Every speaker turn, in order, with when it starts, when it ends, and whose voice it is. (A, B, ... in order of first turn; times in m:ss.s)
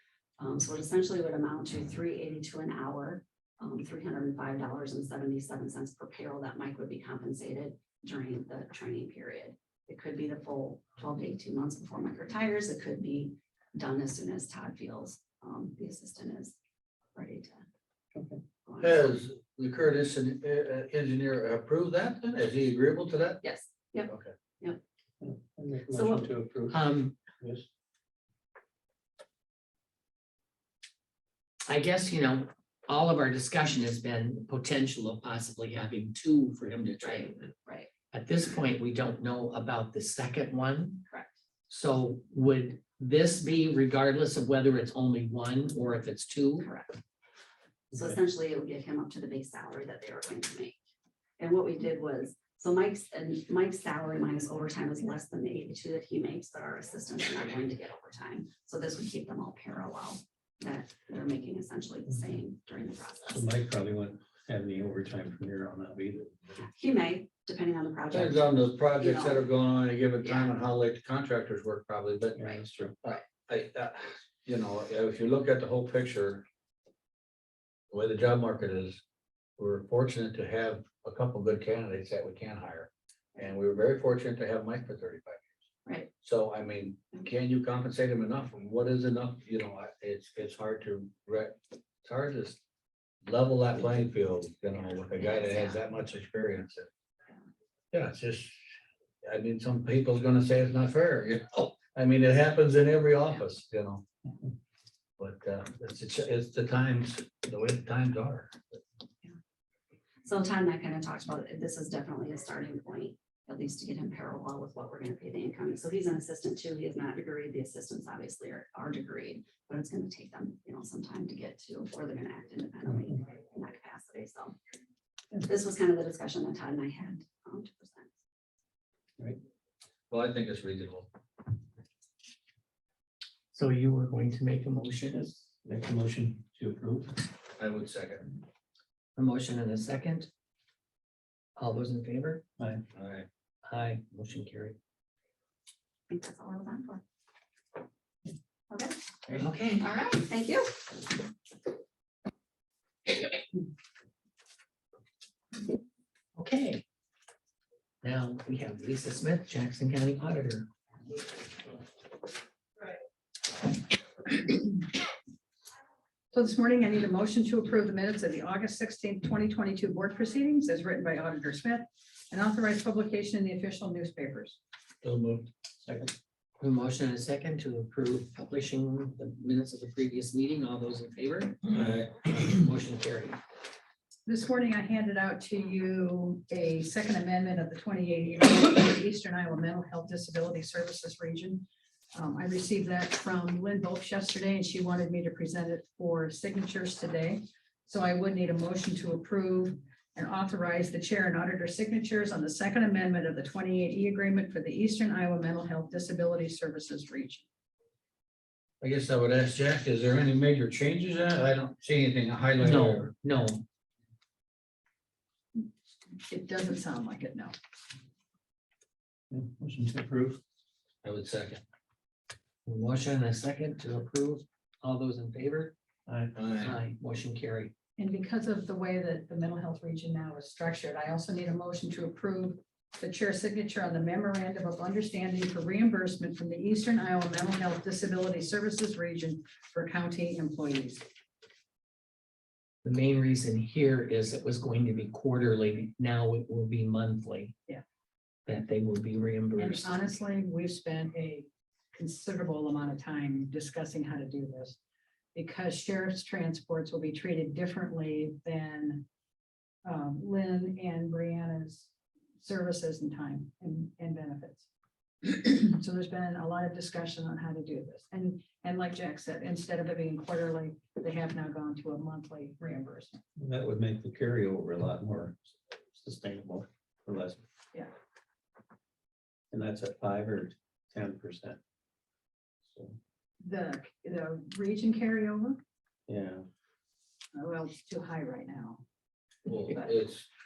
0:00.4-0:16.6 A
0:17.2-0:17.7 A
0:18.2-0:18.4 B
0:18.6-0:19.1 A
0:18.8-0:23.4 C
0:23.4-0:24.8 A
0:24.1-0:24.3 C
0:25.2-0:26.8 B
0:25.9-0:26.3 A
0:26.7-0:27.2 D
0:27.4-0:27.7 B
0:31.7-0:37.4 D
0:37.0-0:37.9 A
0:38.1-0:41.0 D
0:41.1-0:41.4 A
0:41.7-0:46.7 D
0:46.6-0:47.0 A
0:47.9-0:50.8 A
0:51.4-1:03.5 A
1:03.3-1:06.6 B
1:06.6-1:09.5 A
1:08.1-1:12.4 C
1:10.2-1:10.5 A
1:12.4-1:12.9 B
1:12.4-1:13.2 A
1:13.0-1:16.4 C
1:17.9-1:19.0 C
1:19.6-1:25.6 C
1:25.9-1:26.1 A
1:26.2-1:32.6 C
1:33.2-1:36.9 C
1:35.2-1:35.8 A
1:37.9-1:38.6 C
1:39.2-1:44.0 C
1:45.2-1:48.8 C
1:50.2-2:04.6 A
2:05.4-2:08.1 A
2:10.1-2:11.1 C
2:13.5-2:15.3 D
2:15.1-2:17.2 B
2:17.6-2:18.3 C
2:19.2-2:20.3 D
2:21.6-2:22.4 D
2:23.0-2:23.3 C
2:23.6-2:24.8 D
2:26.1-2:27.0 A
2:28.7-2:29.0 A
2:29.4-2:29.8 D
2:29.8-2:30.8 A
2:36.4-2:36.8 D
2:38.0-2:40.7 D
2:46.3-2:54.6 E
2:55.0-2:55.5 C
2:55.8-2:56.1 B
2:56.6-3:03.4 D
3:01.8-3:02.2 C
3:04.3-3:27.4 E
3:28.8-3:33.1 C
3:32.6-3:33.6 D
3:36.3-3:37.5 E
3:39.3-3:40.4 B
3:41.0-3:41.6 C
3:42.7-3:45.7 D
3:46.1-3:46.3 B
3:46.4-3:46.8 C
3:46.6-3:47.7 D
3:48.0-4:01.0 E
4:02.8-4:07.6 D
4:08.5-4:10.0 D
4:09.6-4:14.8 E
4:15.4-4:19.1 E
4:19.9-4:21.9 E
4:22.4-4:24.6 E
4:25.2-4:33.2 E
4:33.4-4:37.4 B
4:39.5-4:41.6 B
4:42.7-4:43.0 B
4:43.4-4:45.6 E
4:46.1-4:46.5 B
4:47.4-4:48.8 E
4:49.5-4:50.3 C